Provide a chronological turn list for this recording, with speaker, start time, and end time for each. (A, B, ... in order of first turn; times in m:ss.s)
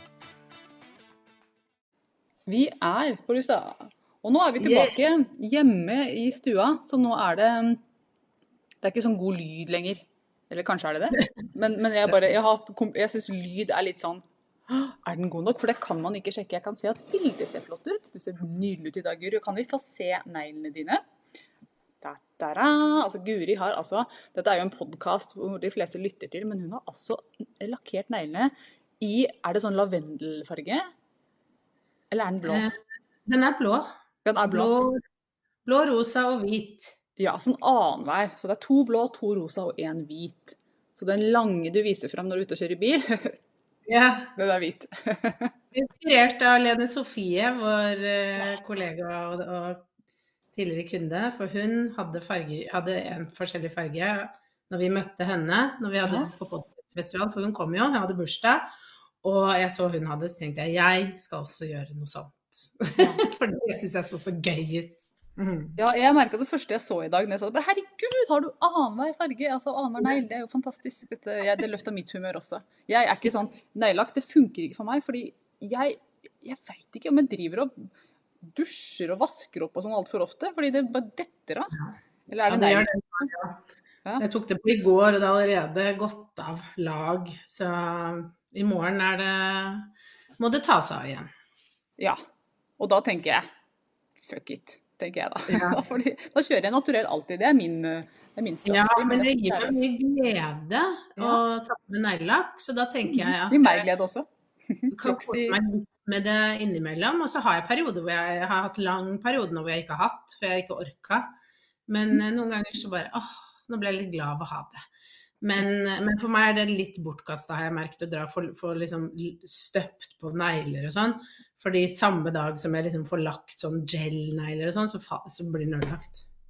0:02.5-0:07.8 A
0:04.6-0:05.0 B
0:08.8-0:21.0 A
0:22.0-0:30.9 A
0:32.1-0:32.7 A
0:32.4-0:33.9 B
0:34.2-0:34.8 A
0:34.5-0:35.0 B
0:35.6-0:37.0 B
0:37.2-0:43.4 A
0:43.9-0:44.3 B
0:44.4-0:45.5 A
0:45.7-0:49.9 B
0:50.5-0:58.7 B
0:56.1-0:56.3 A
0:59.2-1:05.8 B
1:03.0-1:03.2 A
1:05.8-1:17.9 A
1:18.5-1:21.8 A
1:22.3-1:23.3 A
1:22.5-1:23.6 B
1:24.2-1:31.3 B
1:32.8-1:33.5 A
1:34.2-1:39.8 A
1:35.5-1:35.8 B
1:38.7-1:43.9 B
1:43.1-1:45.6 A
1:44.9-1:51.3 B
1:51.9-1:54.8 B
1:55.4-2:06.2 B